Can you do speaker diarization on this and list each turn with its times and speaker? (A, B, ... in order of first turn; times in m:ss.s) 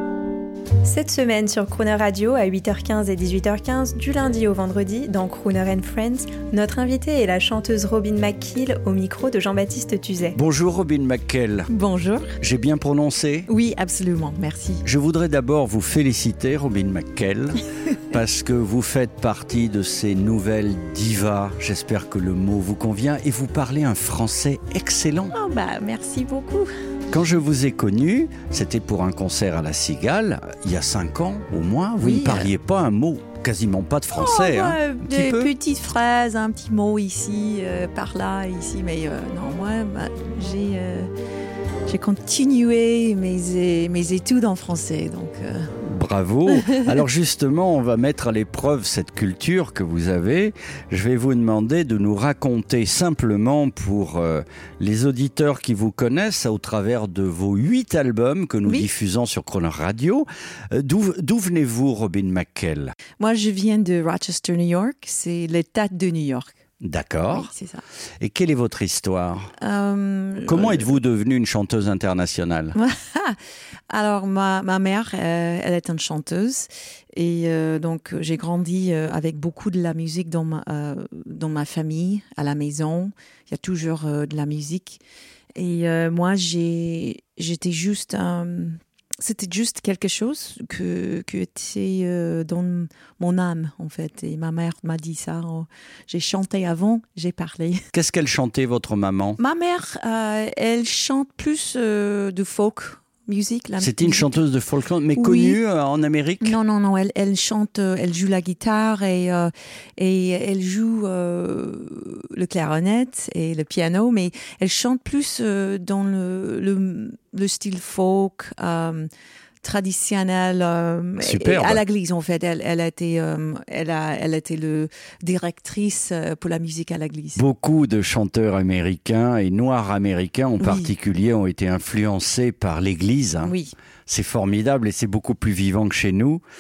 0:00.8-0:10.4 A
0:10.3-0:11.7 B
0:11.7-0:12.3 C
0:12.4-0:13.5 B
0:13.5-0:14.8 C
0:14.8-0:25.3 B
0:25.3-0:26.6 C
0:27.1-0:35.5 B
0:32.0-0:32.5 C
0:34.1-0:41.1 C
0:41.8-0:45.7 C
0:45.8-1:02.9 B
1:03.2-1:06.6 C
1:06.8-1:07.5 B
1:07.3-1:07.8 C
1:08.2-1:09.5 B
1:09.6-1:11.0 C
1:10.4-1:12.8 B
1:12.7-1:13.4 C
1:13.9-1:25.0 C
1:25.6-1:37.8 C
1:37.9-1:39.4 B
1:39.4-1:44.4 C
1:43.8-1:46.6 B
1:45.2-1:45.6 C
1:46.4-1:59.1 C
1:59.6-2:07.4 C
2:01.2-2:01.8 B
2:07.4-2:13.5 B
2:10.6-2:10.9 C
2:13.4-2:13.7 C
2:14.1-2:16.4 B